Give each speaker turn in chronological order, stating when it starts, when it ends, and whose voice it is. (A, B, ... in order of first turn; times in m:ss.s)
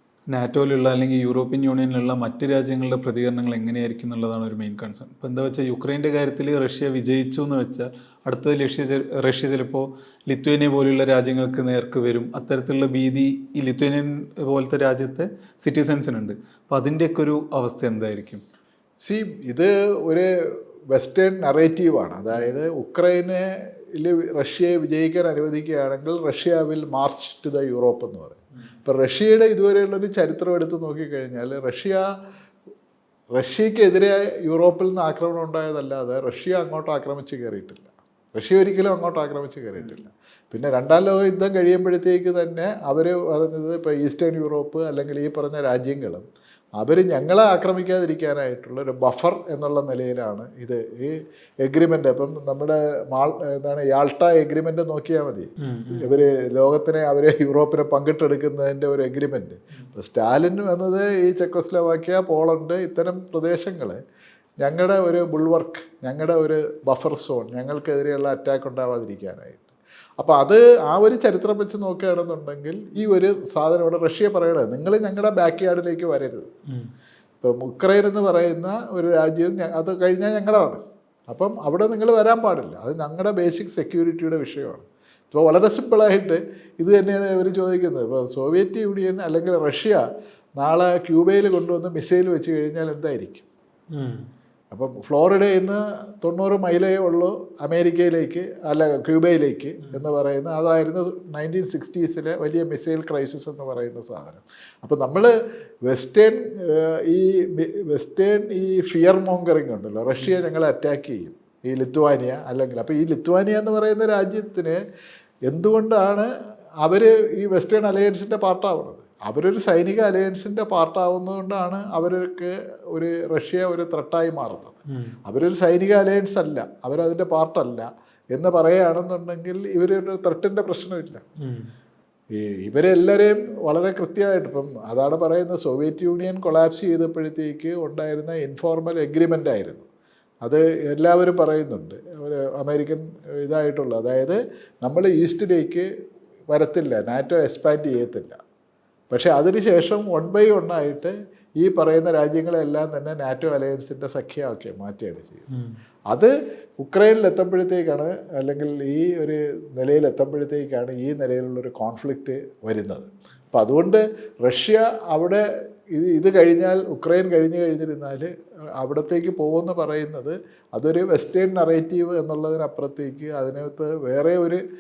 0:00.3-0:18.4 A
0:19.0-0:32.0 B
0:33.4-0:46.2 B
0:46.8-1:04.0 B
0:55.6-0:56.1 A
1:04.6-1:16.5 B
1:17.4-1:30.0 B
1:30.6-1:33.4 B
1:33.9-1:34.2 A
1:34.7-1:45.3 B
1:45.8-1:54.8 B
1:55.5-1:56.3 B
1:56.8-2:11.2 B
2:11.4-2:11.7 A
2:12.3-2:19.8 B
2:20.4-2:25.8 B
2:26.5-2:28.4 B
2:29.1-2:35.5 B
2:36.1-2:54.6 B